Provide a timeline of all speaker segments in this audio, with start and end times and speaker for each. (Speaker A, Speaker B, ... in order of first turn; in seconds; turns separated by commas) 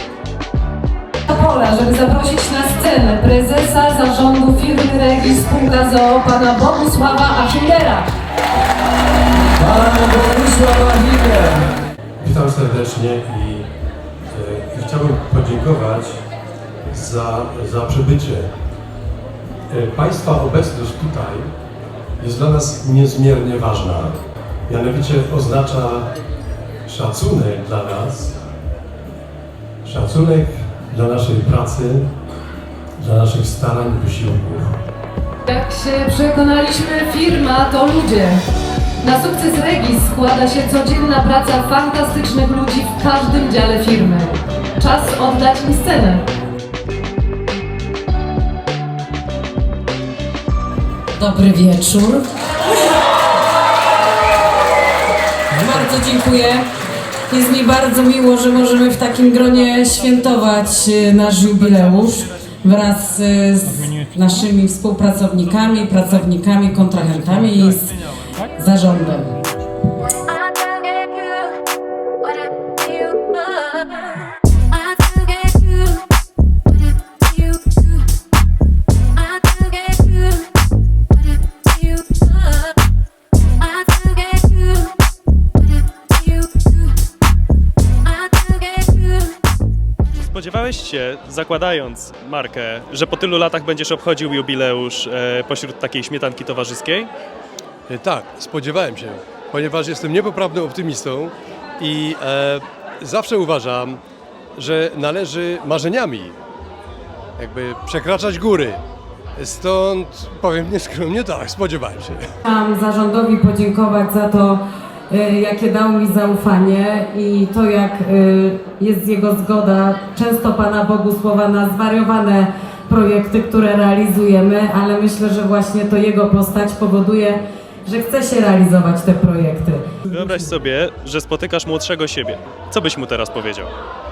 Speaker A: 1.3-8.1, Speaker B: 9.6-11.6, Speaker C: 12.2-13.7, Speaker C: 14.3-16.2, Speaker C: 16.9-18.5, Speaker C: 19.7-21.5, Speaker C: 22.2-26.1, Speaker C: 26.9-28.4, Speaker C: 29.8-32.1, Speaker C: 33.0-34.8, Speaker A: 35.5-38.4, Speaker A: 39.0-46.2, Speaker B: 51.2-52.2, Speaker B: 55.5-56.6, Speaker B: 57.3-67.9, Speaker B: 68.5-69.3, Speaker D: 90.2-97.1, Speaker C: 97.9-104.0, Speaker C: 104.5-106.3, Speaker C: 107.4-108.8, Speaker C: 109.4-112.3, Speaker B: 112.4-130.2, Speaker D: 130.1-133.7